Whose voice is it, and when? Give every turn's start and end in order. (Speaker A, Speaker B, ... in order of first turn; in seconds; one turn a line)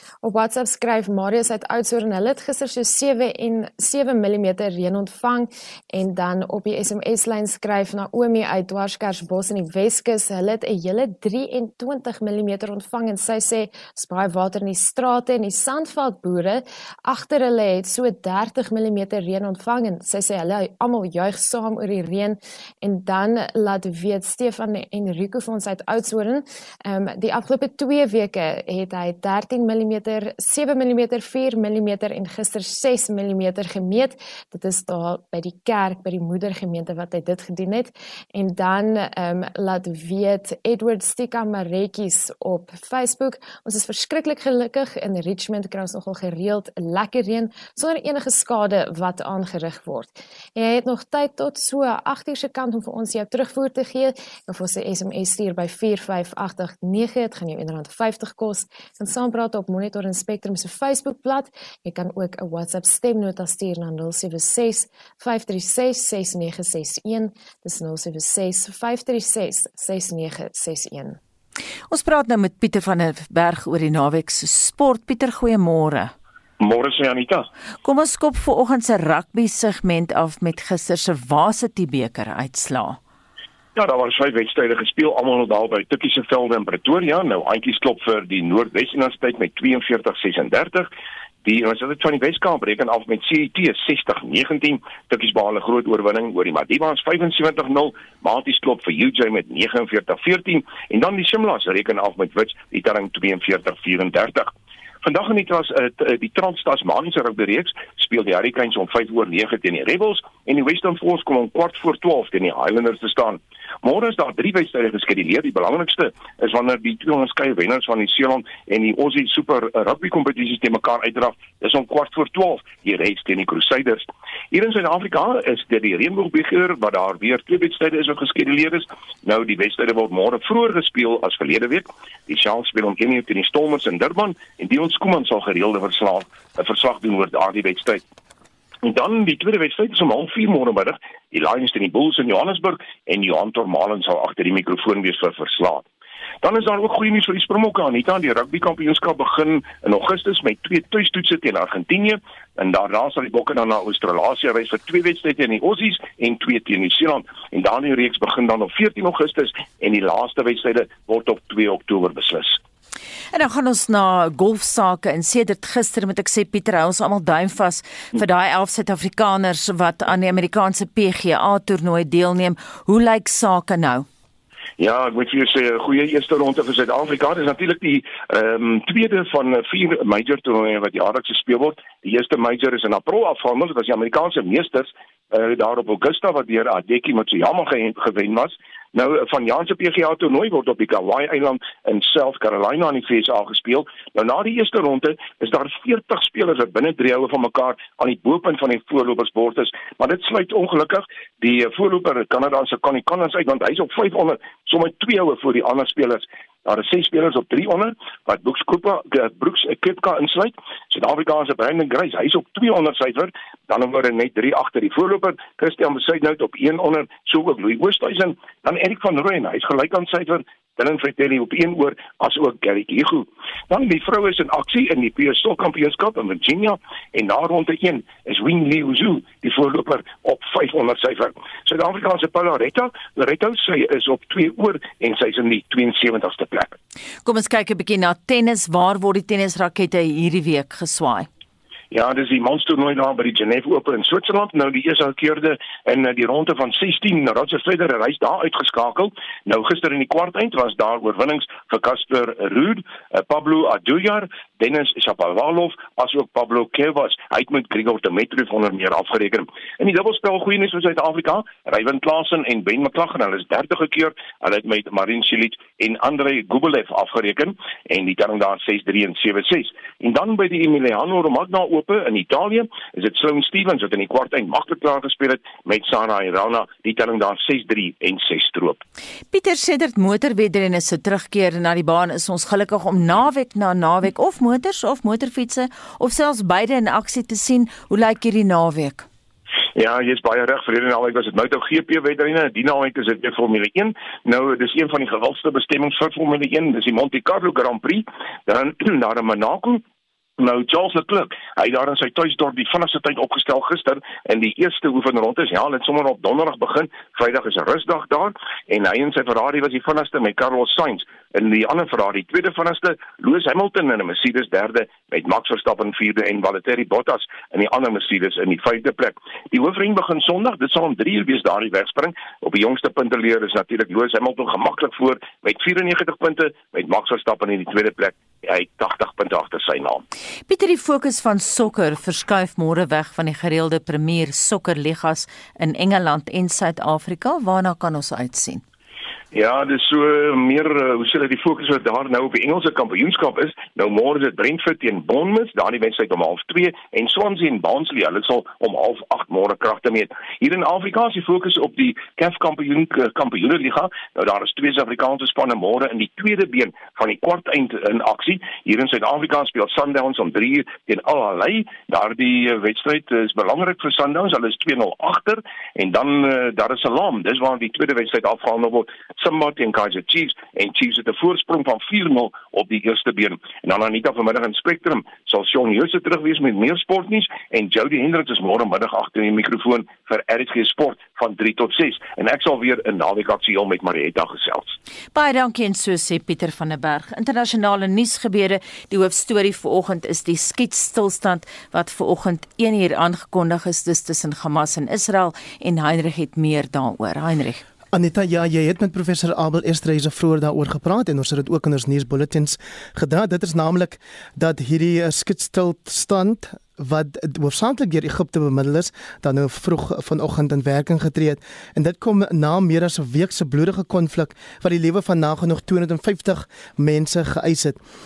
Speaker A: 0.2-71.2
Speaker B: 71.9-76.1
Speaker C: 76.6-77.5
Speaker B: 77.8-83.0
Speaker C: 83.8-90.9
Speaker C: 91.4-104.5
Speaker C: 105.0-138.0
Speaker C: 138.8-145.8
Speaker C: 146.4-162.6
Speaker B: 163.3-174.1
Speaker C: 174.8-236.8
Speaker B: 237.2-241.3
Speaker C: 241.9-278.8
Speaker B: 279.3-289.1
Speaker C: 289.8-299.8
Speaker C: 300.4-330.0
Speaker B: 330.5-338.6
Speaker C: 339.3-384.8
Speaker B: 385.1-397.6
Speaker D: 397.9-417.8